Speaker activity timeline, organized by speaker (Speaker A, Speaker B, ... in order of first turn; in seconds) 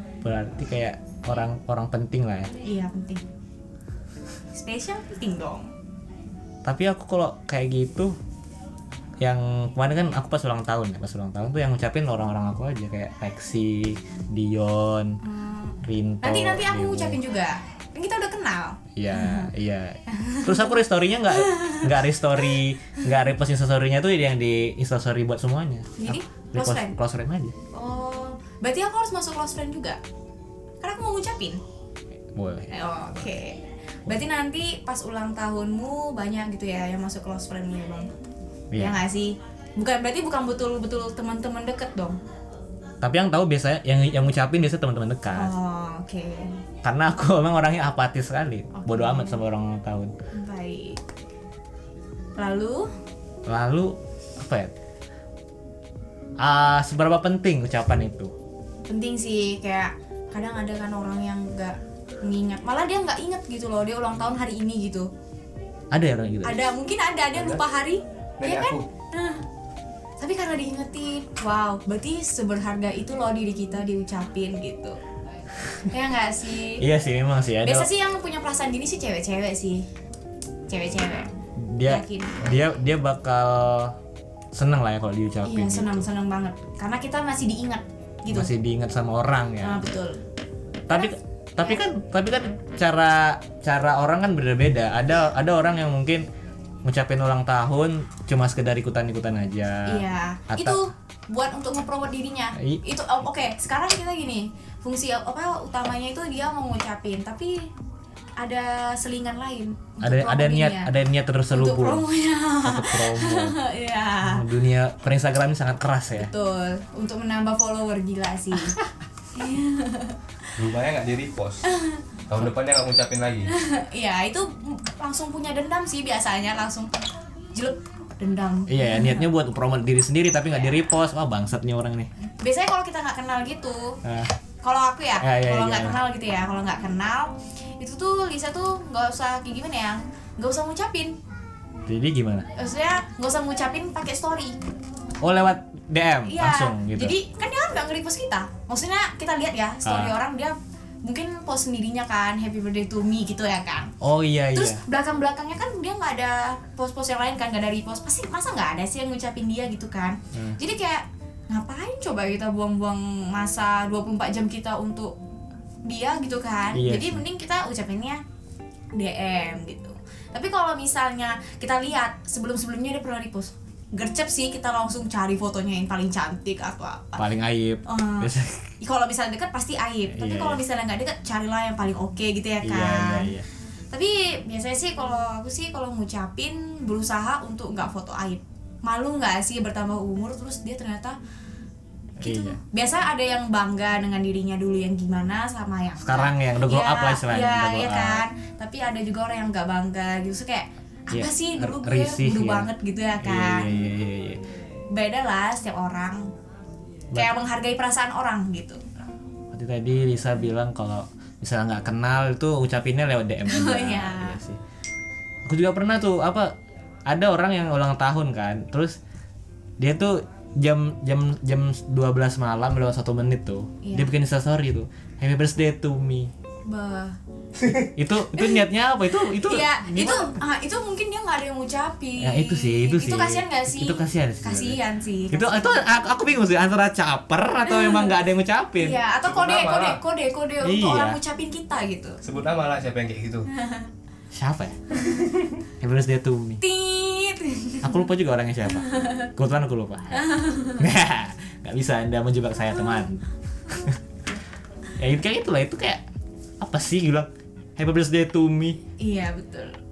Speaker A: 0.2-2.5, 6.6-8.1, 9.2-15.2, 15.8-17.2, 18.9-27.5, 32.3-32.7, 38.7-39.0, 43.0-45.5, 46.8-50.1, 53.5-54.7, 56.4-58.3, 65.9-66.7, 76.7-77.9, 81.5-84.0, 84.5-86.0, 88.3-89.8, 90.9-96.2, 96.8-100.8, 102.5-102.8, 110.0-112.0, 112.6-113.6, 114.2-116.3, 128.7-132.1, 134.0-134.3, 135.2-136.0, 141.9-142.5, 145.2-147.1, 149.8-150.2, 154.0-154.8, 160.3-160.6, 166.7-167.2, 177.2-178.7, 180.1-180.6, 182.6-183.5, 192.2-192.6, 196.0-198.2, 201.1-204.4, 209.5-214.6, 215.4-216.5, 217.1-219.0, 219.8-226.3, 227.9-230.4, 232.2-239.0, 240.6-241.2, 244.3-246.6, 247.8-254.0, 254.9-256.0, 256.6-258.8
Speaker B: 2.6-3.2, 4.5-5.7, 15.2-19.5, 20.1-22.6, 26.0-26.9, 27.7-30.0, 30.8-31.6, 32.7-38.1, 38.8-42.2, 45.3-46.6, 48.7-49.4, 50.3-51.0, 52.4-52.9, 58.9-65.1, 66.4-69.4, 70.2-75.0, 75.8-76.8, 77.6-79.9, 80.7-81.3, 81.8-82.5, 85.4-88.5, 89.6-90.2, 90.9-91.8, 99.8-107.7, 108.4-110.9, 111.5-114.4, 116.2-118.8, 119.3-120.3, 121.6-122.0, 123.5-126.9, 127.5-129.3, 132.4-134.0, 134.6-141.2, 142.6-144.6, 146.3-153.9, 154.5-165.1, 165.8-168.2, 168.9-177.3, 177.8-183.3, 183.9-191.2, 192.2-203.8, 204.9-206.3, 207.1-208.8, 213.4-214.4, 223.8-224.1, 226.7-227.2, 228.3-228.6, 229.2-235.9, 237.7-238.1, 238.8-242.2, 243.5-243.9, 246.6-248.0, 248.8-249.3, 250.1-250.9, 259.0-259.8
Speaker C: 67.3-67.6, 68.4-68.8, 120.5-121.7, 122.3-123.5, 239.2-240.0, 242.2-243.5